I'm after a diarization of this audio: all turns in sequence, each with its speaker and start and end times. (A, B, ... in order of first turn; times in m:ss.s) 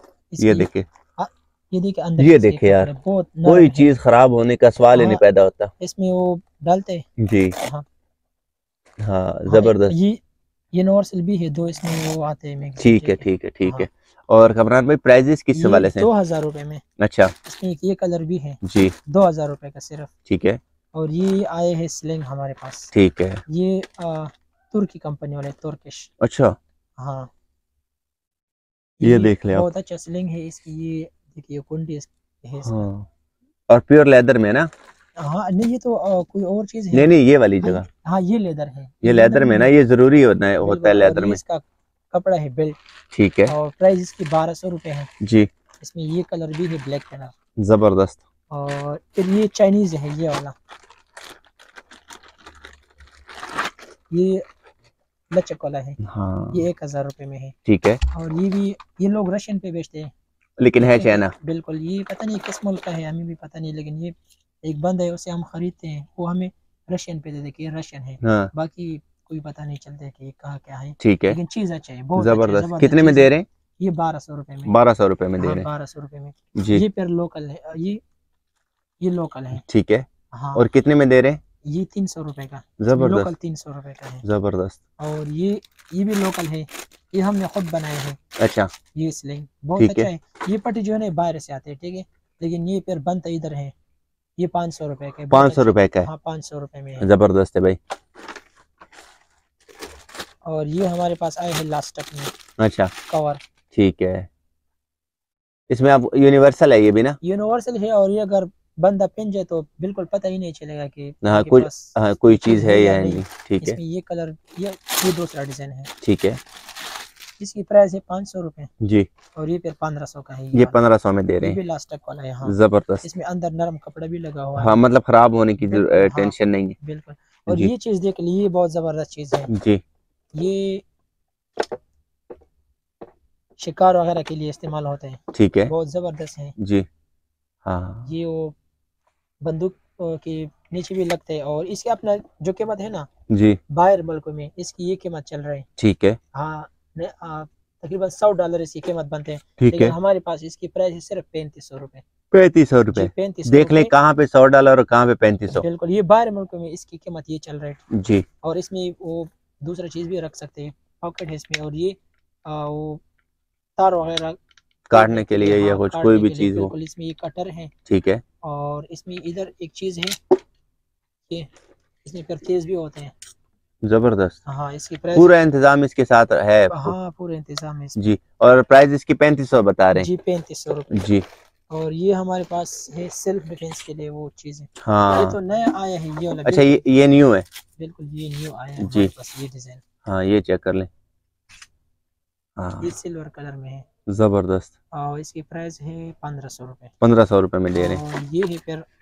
0:00.3-0:03.9 A
0:00.4-0:00.9 B
0:02.2-0:02.9 B
0:03.4-0:05.7 B
0:04.9-0:05.2 A
0:05.8-0:07.1 A
0:07.2-0:07.6 B
0:07.6-0:07.8 A
0:09.0-0:10.0 B
0:09.5-0:10.2 A
0:10.7-0:13.9 A
0:12.8-0:16.1 B
0:15.5-0:16.8 A
0:17.0-0:17.3 B
0:17.4-0:20.1 A
0:18.6-0:19.0 B
0:20.3-0:20.6 B
0:20.9-0:22.9 A
0:22.9-0:23.4 B
0:23.5-0:26.1 A
0:26.2-0:26.6 B
0:27.0-0:27.3 A
0:29.0-0:32.8 A
0:29.0-0:29.7 B
0:32.6-0:33.1 B
0:33.7-0:34.7 B
0:35.2-0:39.7 A
0:36.9-0:37.9 B
0:39.0-0:41.4 B
0:40.6-0:42.8 A
0:43.1-0:43.5 B
0:43.5-0:45.1 A
0:45.2-0:45.5 B
0:45.8-0:47.3 A
0:47.6-0:48.2 B
0:48.5-0:50.5 A
0:54.1-0:54.4 A
0:55.3-0:56.0 A
0:56.0-0:56.7 B
0:56.5-0:57.5 A
0:57.6-0:58.0 B
0:58.1-1:00.1 A
1:00.6-1:01.3 B
1:00.8-1:14.7 A
1:08.2-1:08.5 B
1:11.0-1:11.4 B
1:12.2-1:13.5 B
1:14.7-1:15.7 B
1:15.4-1:18.0 A
1:16.6-1:16.8 B
1:19.0-1:19.6 A
1:19.6-1:21.4 B
1:20.3-1:20.7 A
1:21.6-1:24.2 A
1:22.8-1:23.3 B
1:24.2-1:24.8 B
1:25.0-1:28.2 A
1:28.4-1:28.7 B
1:29.0-1:33.7 A
1:29.8-1:30.1 B
1:34.4-1:37.1 A
1:35.3-1:36.1 B
1:37.0-1:37.8 B
1:40.5-1:42.3 A
1:42.6-1:42.9 B
1:43.1-1:43.4 A
1:43.7-1:44.3 B
1:45.7-1:47.2 B
1:47.2-1:55.9 A
1:51.2-1:53.8 B
1:56.0-1:56.4 B
1:57.4-1:58.7 A
1:58.8-1:59.1 B
1:59.4-2:00.8 A
2:00.5-2:01.6 B
2:01.4-2:04.8 A
2:02.5-2:03.1 B
2:04.6-2:06.8 B
2:05.6-2:09.5 A
2:09.5-2:09.8 B
2:10.4-2:10.8 A
2:13.6-2:16.6 A
2:15.3-2:15.7 B
2:16.6-2:16.9 B
2:17.6-2:18.1 B
2:18.0-2:18.6 A
2:19.4-2:23.1 A
2:23.3-2:23.6 B
2:23.7-2:25.7 A
2:25.8-2:26.2 B
2:26.3-2:32.0 A
2:29.6-2:30.0 B
2:32.3-2:35.6 B
2:32.9-2:33.9 A
2:35.5-2:37.8 A
2:37.9-2:38.3 B
2:38.4-2:43.0 A
2:43.8-2:44.4 A
2:44.9-2:46.7 B
2:44.9-2:47.7 A
2:47.9-2:48.2 B
2:48.4-2:50.2 A
2:52.0-2:53.1 A
2:53.8-2:54.4 B
2:54.5-2:55.3 A
2:55.2-2:56.9 B
2:56.7-2:58.0 A
2:58.0-3:00.1 B
2:59.9-3:01.0 A
3:00.9-3:01.2 B
3:01.7-3:06.8 A
3:04.8-3:05.4 B
3:06.4-3:07.5 B
3:07.8-3:09.8 A
3:08.8-3:09.1 B
3:10.0-3:10.9 B
3:12.6-3:12.9 B
3:12.8-3:13.9 A
3:14.1-3:14.7 B
3:14.9-3:16.9 A
3:17.0-3:18.0 B
3:17.8-3:18.8 A